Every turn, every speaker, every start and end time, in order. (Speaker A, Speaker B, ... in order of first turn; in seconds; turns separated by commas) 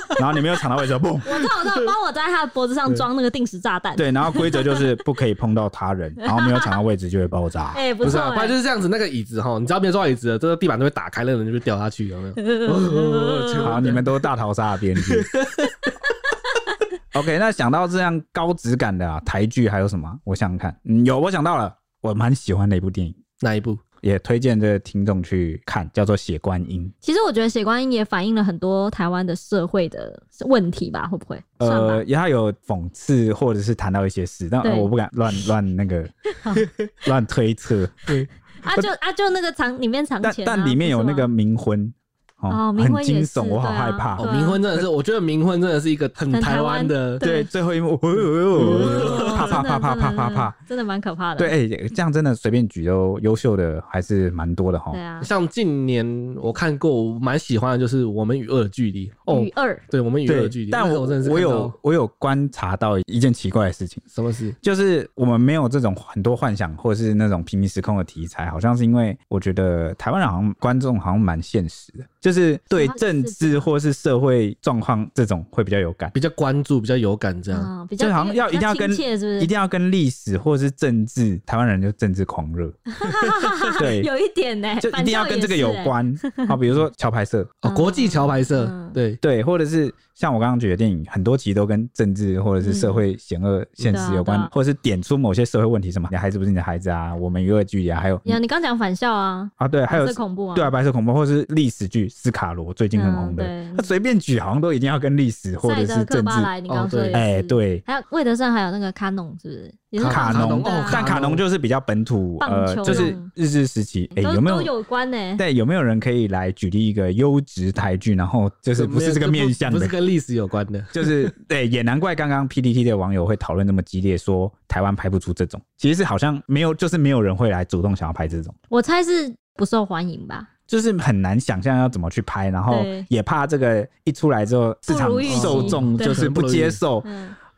Speaker A: 0.1-1.5, Speaker B: 1.2-4.8, Speaker A: 4.0-7.8, Speaker B: 6.2-6.7, Speaker B: 7.7-8.6, Speaker C: 8.0-14.0, Speaker B: 12.4-13.8, Speaker A: 13.6-15.3, Speaker C: 15.0-15.9, Speaker A: 17.1-23.2, Speaker C: 23.4-23.8, Speaker A: 24.0-26.9, Speaker B: 27.0-32.0, Speaker A: 31.6-36.1, Speaker B: 34.6-34.9, Speaker B: 36.4-36.7, Speaker A: 37.0-38.2, Speaker B: 38.6-41.3, Speaker A: 40.2-44.3, Speaker B: 42.5-44.6, Speaker C: 44.2-47.2, Speaker B: 46.3-47.5, Speaker A: 47.2-50.5, Speaker C: 48.6-49.5, Speaker B: 48.6-51.5, Speaker A: 51.4-55.0, Speaker B: 54.9-55.3, Speaker C: 55.2-61.8, Speaker B: 59.3-59.8, Speaker A: 60.3-64.0, Speaker C: 64.1-64.6, Speaker A: 64.6-76.1, Speaker B: 72.7-73.7, Speaker C: 76.1-77.7, Speaker B: 77.5-79.5, Speaker A: 78.0-82.8, Speaker B: 82.9-86.5, Speaker A: 83.7-84.1, Speaker A: 84.8-87.5, Speaker C: 87.6-89.2, Speaker B: 87.7-89.0, Speaker A: 89.2-98.4, Speaker B: 92.6-93.0, Speaker B: 93.8-94.5, Speaker B: 98.2-100.7, Speaker A: 99.6-106.5, Speaker B: 102.9-103.9, Speaker B: 105.6-111.1, Speaker C: 106.7-107.2, Speaker A: 107.1-107.8, Speaker C: 110.0-111.4, Speaker A: 110.0-114.7, Speaker B: 112.4-113.3, Speaker C: 112.9-113.1, Speaker B: 114.2-115.4, Speaker A: 115.4-119.9, Speaker C: 118.8-121.3, Speaker A: 120.9-128.5, Speaker B: 128.7-130.5, Speaker A: 130.7-137.1, Speaker B: 132.7-133.1, Speaker B: 134.9-136.3, Speaker C: 135.3-136.8, Speaker B: 137.0-137.4